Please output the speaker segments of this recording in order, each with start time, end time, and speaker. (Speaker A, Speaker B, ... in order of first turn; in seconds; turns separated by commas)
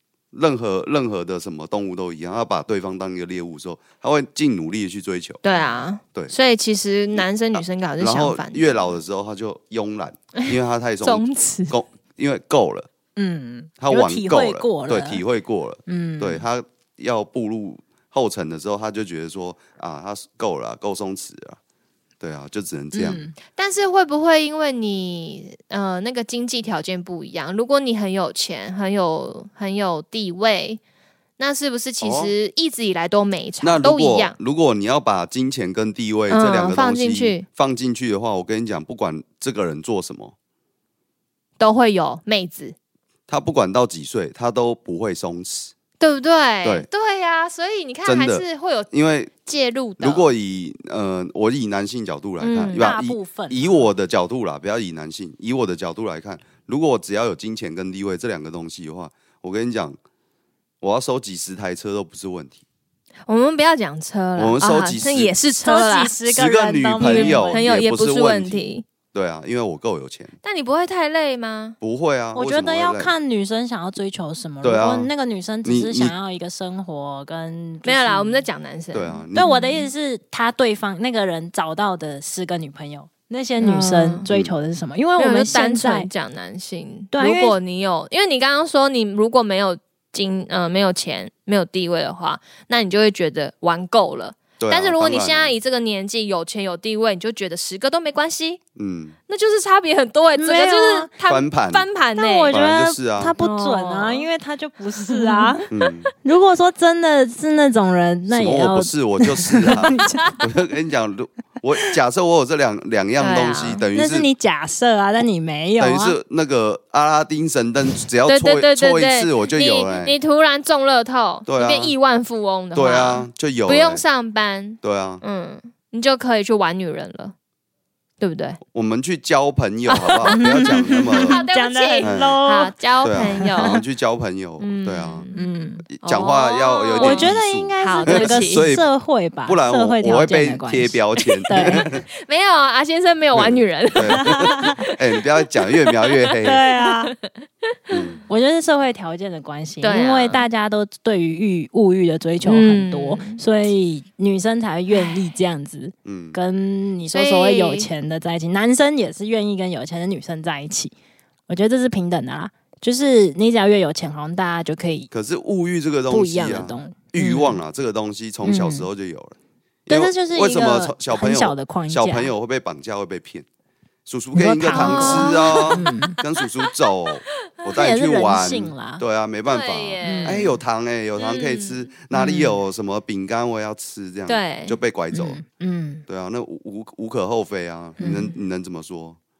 Speaker A: 0.3-5.4, Speaker B: 5.4-8.7, Speaker A: 7.2-12.9, Speaker B: 10.4-11.8, Speaker C: 13.2-15.2, Speaker A: 13.8-21.6, Speaker C: 15.9-16.4, Speaker A: 22.2-23.2, Speaker C: 22.9-23.3, Speaker B: 23.4-30.8, Speaker B: 31.4-34.3, Speaker A: 32.0-32.3, Speaker A: 33.6-40.3, Speaker B: 36.3-37.4, Speaker B: 41.6-42.7, Speaker A: 43.3-45.7, Speaker B: 46.0-48.9, Speaker A: 48.0-49.3, Speaker B: 49.4-50.3, Speaker A: 50.0-60.0, Speaker B: 52.4-52.9, Speaker C: 52.7-53.9, Speaker A: 60.8-62.6, Speaker B: 63.3-66.2, Speaker A: 64.4-65.3, Speaker C: 65.6-67.7, Speaker A: 66.3-70.3, Speaker B: 67.0-68.8, Speaker B: 70.4-71.8, Speaker A: 71.8-73.1, Speaker C: 72.3-78.4, Speaker A: 74.6-75.1, Speaker A: 75.6-76.1, Speaker B: 77.8-79.9, Speaker A: 78.9-79.5, Speaker C: 79.3-86.1, Speaker B: 83.6-84.2, Speaker A: 84.3-84.5, Speaker B: 85.2-98.6, Speaker C: 87.1-87.5, Speaker A: 94.6-95.5, Speaker A: 98.8-99.2, Speaker B: 99.3-102.6, Speaker C: 100.3-101.1, Speaker A: 101.3-101.9, Speaker C: 102.2-105.6, Speaker A: 102.5-103.3, Speaker B: 103.4-104.3, Speaker B: 105.0-105.9, Speaker A: 105.7-106.1, Speaker C: 106.2-110.3, Speaker A: 108.3-114.3, Speaker B: 109.8-110.3, Speaker B: 113.2-113.8, Speaker C: 113.9-116.2, Speaker A: 115.8-120.2, Speaker B: 118.3-127.3, Speaker A: 121.5-121.9, Speaker A: 122.7-124.0, Speaker A: 124.8-125.2, Speaker B: 128.2-128.6, Speaker A: 128.6-131.4, Speaker B: 129.9-133.8, Speaker C: 130.4-133.7, Speaker A: 132.0-132.4, Speaker A: 133.0-135.3, Speaker B: 134.6-135.5, Speaker C: 135.3-135.8, Speaker A: 135.8-138.9, Speaker B: 136.0-138.7, Speaker C: 137.0-141.9, Speaker A: 139.4-142.0, Speaker B: 141.2-147.3, Speaker A: 143.3-146.6, Speaker C: 144.1-144.6, Speaker C: 146.4-147.1, Speaker B: 147.9-148.2, Speaker A: 147.9-148.2, Speaker C: 148.3-160.9, Speaker B: 149.8-150.4, Speaker B: 152.4-153.4, Speaker A: 156.1-156.4, Speaker B: 157.1-157.9, Speaker C: 161.5-165.1, Speaker A: 165.1-173.4, Speaker C: 166.1-167.6, Speaker C: 168.4-168.9, Speaker C: 169.9-172.3, Speaker A: 174.1-185.4, Speaker C: 174.3-176.2, Speaker B: 174.8-177.1, Speaker C: 177.7-179.0, Speaker B: 179.5-180.6, Speaker C: 180.0-180.4, Speaker B: 181.2-181.9, Speaker C: 182.1-182.6, Speaker B: 184.3-184.8, Speaker C: 185.1-186.1, Speaker A: 186.1-189.2, Speaker C: 188.0-188.3